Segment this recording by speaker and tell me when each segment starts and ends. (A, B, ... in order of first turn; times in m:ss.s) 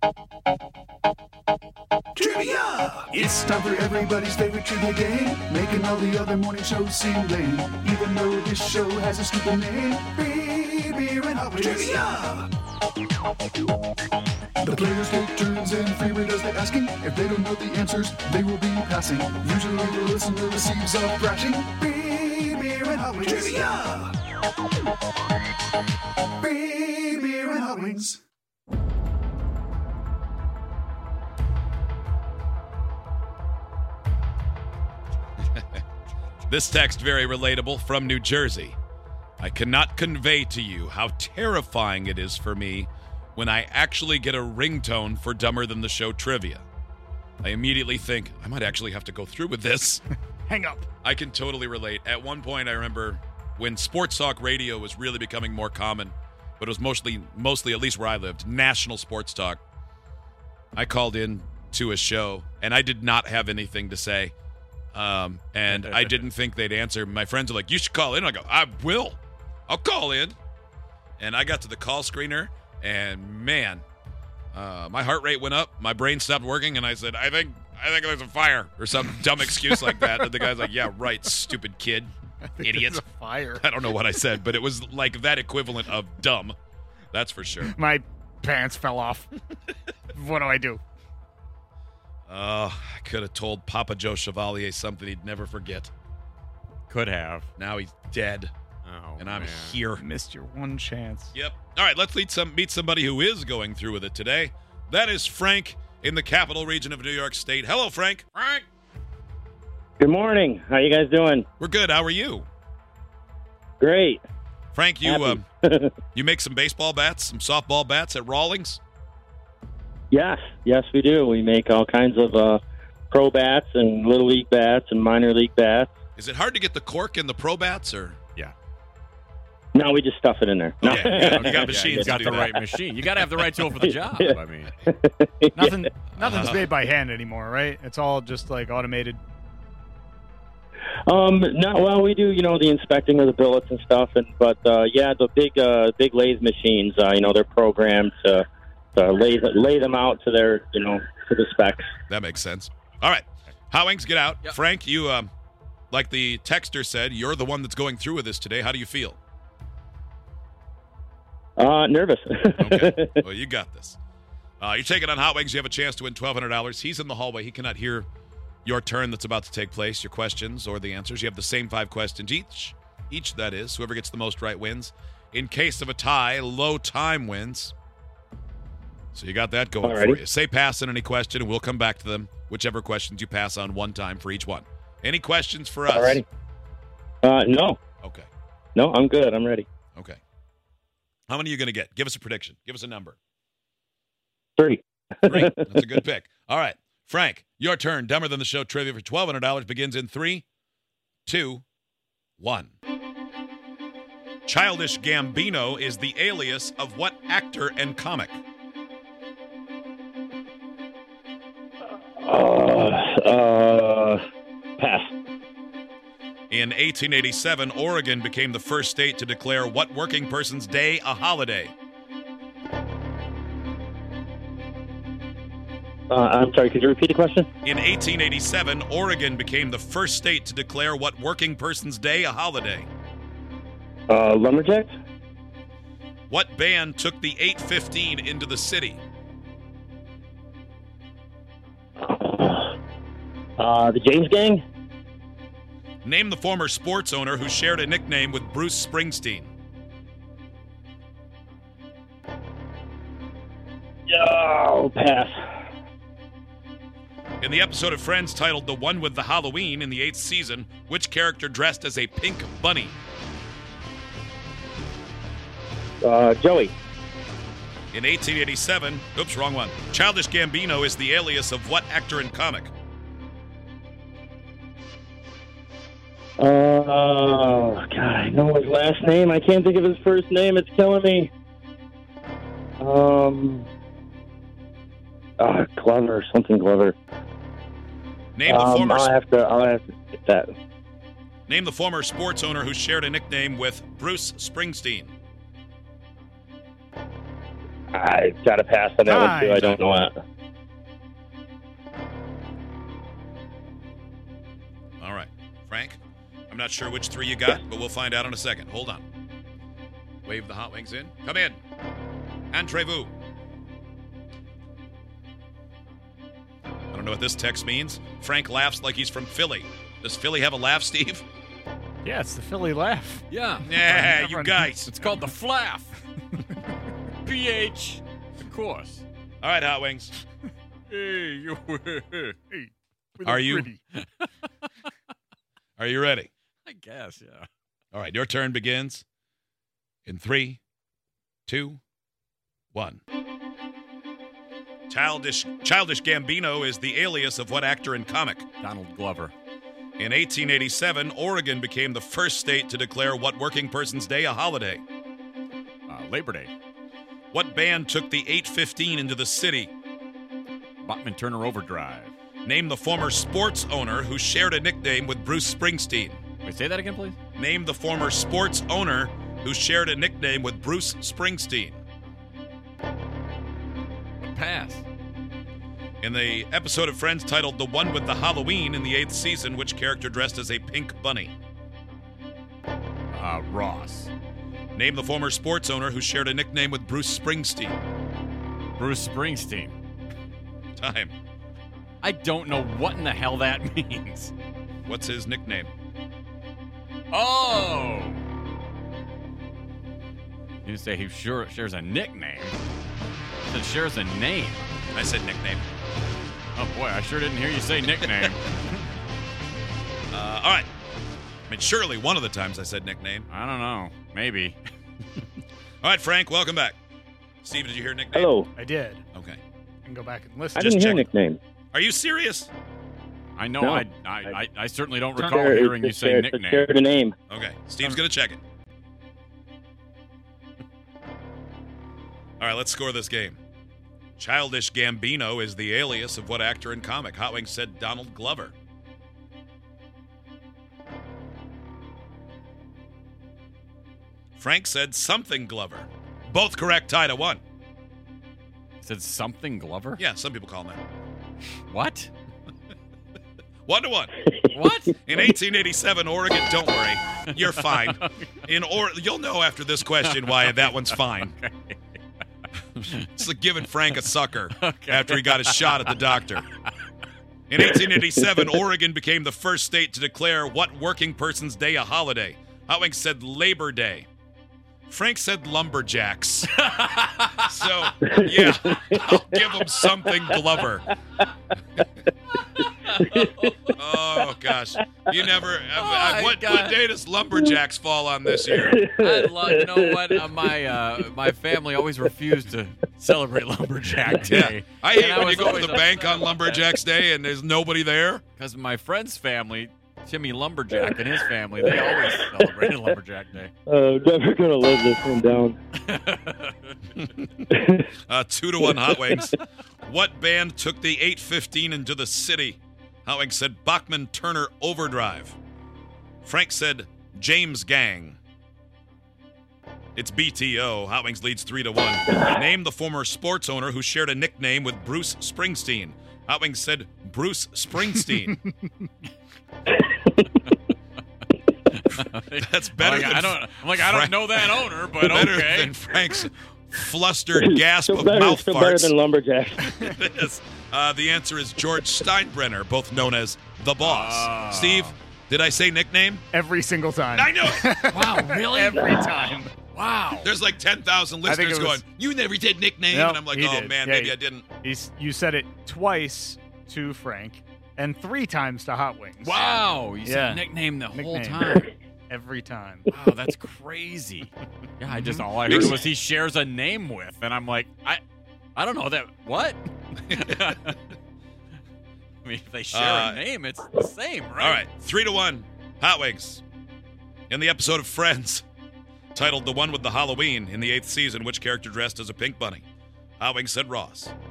0:02.2-0:12.4 A
0:14.6-0:24.1 A
0:26.4-0:28.2 A
0:36.5-0:38.8 B
0:39.4-0:46.6 B
0:47.4-0:50.0 B
0:50.5-0:50.9 C
0:51.0-0:59.6 B
1:00.8-1:04.3 B
1:04.9-1:10.4 B
1:05.7-1:06.0 D
1:11.2-1:13.8 B
1:14.5-1:23.0 B
1:19.6-1:19.9 C
1:22.5-1:23.6 C
1:23.6-1:26.6 B
1:27.1-1:27.7 B
1:27.6-1:29.3 C
1:30.1-1:30.8 C
1:32.3-1:35.9 B
1:36.9-1:37.5 D
1:37.6-1:38.5 B
1:38.8-1:39.8 D
1:39.2-1:40.0 B
1:40.0-1:41.3 C
1:41.3-1:48.2 B
1:48.3-1:48.6 D
1:50.0-1:51.4 E
1:51.6-1:52.5 B
1:53.8-1:54.2 E
1:54.7-1:55.4 B
1:55.0-1:55.9 E
1:56.1-1:58.8 B
2:00.1-2:05.9 E
2:06.2-2:08.2 B
2:09.7-2:12.8 E
2:10.8-2:12.5 B
2:11.0-2:14.7 D
2:13.8-2:15.8 E
2:15.6-2:19.2 C
2:16.1-2:16.7 B
2:21.1-2:28.4 E
2:28.9-2:31.8 E
2:32.1-2:35.3 B
2:35.9-2:39.2 B
2:41.6-2:43.2 E
2:42.6-2:44.0 B
2:44.6-2:48.1 B
2:48.6-2:57.7 B
2:59.1-3:06.2 B
2:59.8-3:00.2 E
3:05.9-3:06.2 E
3:07.2-3:07.8 E
3:08.0-3:08.3 B
3:08.7-3:09.7 E
3:09.9-3:10.2 B
3:11.3-3:13.2 B
3:14.6-3:15.6 E
3:15.3-3:20.4 B
3:21.2-3:21.6 B
3:22.4-3:22.7 B
3:24.5-3:28.4 B
3:32.2-3:34.2 E
3:34.8-3:35.1 E
3:36.5-3:41.7 B
3:46.1-3:47.5 E
3:47.6-3:52.9 B
3:54.1-3:54.9 E
3:56.3-3:59.0 B
4:02.0-4:02.8 E
4:03.6-4:04.6 E
4:06.0-4:09.5 B
4:14.1-4:15.3 E
4:17.4-4:23.0 B
4:26.0-4:26.7 E
4:27.9-4:32.7 B
4:36.4-4:41.3 E
4:42.8-4:43.7 E
4:45.4-4:47.0 E
4:48.4-4:49.1 B
4:48.4-4:50.5 E
4:51.5-4:55.1 B
4:57.9-5:00.1 E
4:59.0-4:59.8 C
5:05.0-5:09.0 B
5:10.2-5:11.6 B
5:12.5-5:13.1 B
5:16.9-5:21.2 B
5:22.0-5:25.1 C
5:23.3-5:23.7 D
5:23.6-5:24.9 B
5:24.9-5:26.0 D
5:27.2-5:29.0 D
5:29.4-5:30.1 B
5:30.9-5:32.4 D
5:32.5-5:33.8 C
5:33.2-5:33.7 B
5:35.8-5:36.3 B
5:36.6-5:37.4 D
5:37.9-5:39.0 B
5:40.0-5:40.6 B
5:41.5-5:41.8 B
5:42.7-5:43.0 B
5:44.9-5:48.5 B
5:48.6-5:49.3 D
5:50.0-5:54.8 B
5:55.9-5:56.5 D
5:57.3-5:59.7 B
6:00.8-6:02.1 D
6:02.4-6:06.2 B
6:06.4-6:07.2 D
6:07.4-6:11.8 B
6:14.2-6:14.8 D
6:16.0-6:21.3 B
6:23.1-6:24.1 D
6:24.8-6:27.8 B
6:28.8-6:29.7 D
6:30.8-6:31.1 B
6:32.0-6:34.3 D
6:34.8-6:35.7 B
6:37.1-6:38.2 D
6:40.6-6:42.6 D
6:43.5-6:44.6 D
6:44.9-6:45.6 B
6:46.6-6:48.6 D
6:50.1-6:50.7 B
6:51.5-6:53.2 B
6:53.3-6:54.6 D
6:55.8-6:56.8 B
6:57.4-6:58.4 B
6:58.1-6:58.5 E
6:58.5-6:59.0 C
6:59.1-6:59.4 B
6:59.8-7:01.1 C
7:00.6-7:01.4 E
7:00.6-7:01.0 B
7:01.7-7:02.5 B
7:03.4-7:06.7 D
7:05.2-7:07.1 E
7:07.3-7:08.4 B
7:12.4-7:13.4 B
7:14.2-7:18.6 B
7:24.4-7:27.4 B
7:28.8-7:30.0 D
7:30.0-7:30.8 B
7:31.7-7:32.1 D
7:33.6-7:34.1 B
7:34.5-7:35.0 D
7:35.0-7:41.3 B
7:37.3-7:38.1 D
7:40.0-7:41.8 D
7:43.1-7:46.4 B
7:44.5-7:46.0 D
7:47.5-7:54.1 B
7:47.6-7:48.6 E
7:54.9-7:56.5 B
7:56.6-7:57.4 D
7:57.5-8:00.9 B
7:58.0-8:00.4 E
8:02.5-8:03.5 D
8:03.8-8:08.8 B
8:05.8-8:06.8 D
8:08.3-8:10.2 E
8:08.9-8:16.8 D
8:14.2-8:18.2 B
8:18.4-8:23.5 D
8:23.7-8:25.6 E
8:25.8-8:26.7 D
8:27.0-8:27.2 B
8:27.5-8:27.8 E
8:28.1-8:29.3 B
8:28.6-8:29.3 E
8:29.8-8:35.4 B
8:36.2-8:38.2 B
8:40.0-8:48.4 B
8:51.7-8:55.7 D
8:52.4-8:54.5 B
8:55.0-8:58.9 B
8:57.4-8:59.8 E
8:59.6-9:06.2 B
9:03.8-9:05.0 D
9:06.3-9:09.5 C
9:07.1-9:07.7 B
9:07.9-9:08.9 D
9:09.7-9:10.3 D
9:10.2-9:14.5 B
9:11.2-9:11.8 C
9:12.9-9:21.5 C
9:19.2-9:21.7 D
9:22.1-9:22.9 C
9:22.9-9:28.0 D
9:24.9-9:25.3 C
9:25.4-9:25.7 B
9:28.6-9:30.8 D
9:32.2-9:34.6 D
9:32.7-9:33.2 B
9:34.4-9:36.4 B
9:37.3-9:38.4 B
9:39.1-9:42.6 B
9:43.2-9:44.1 B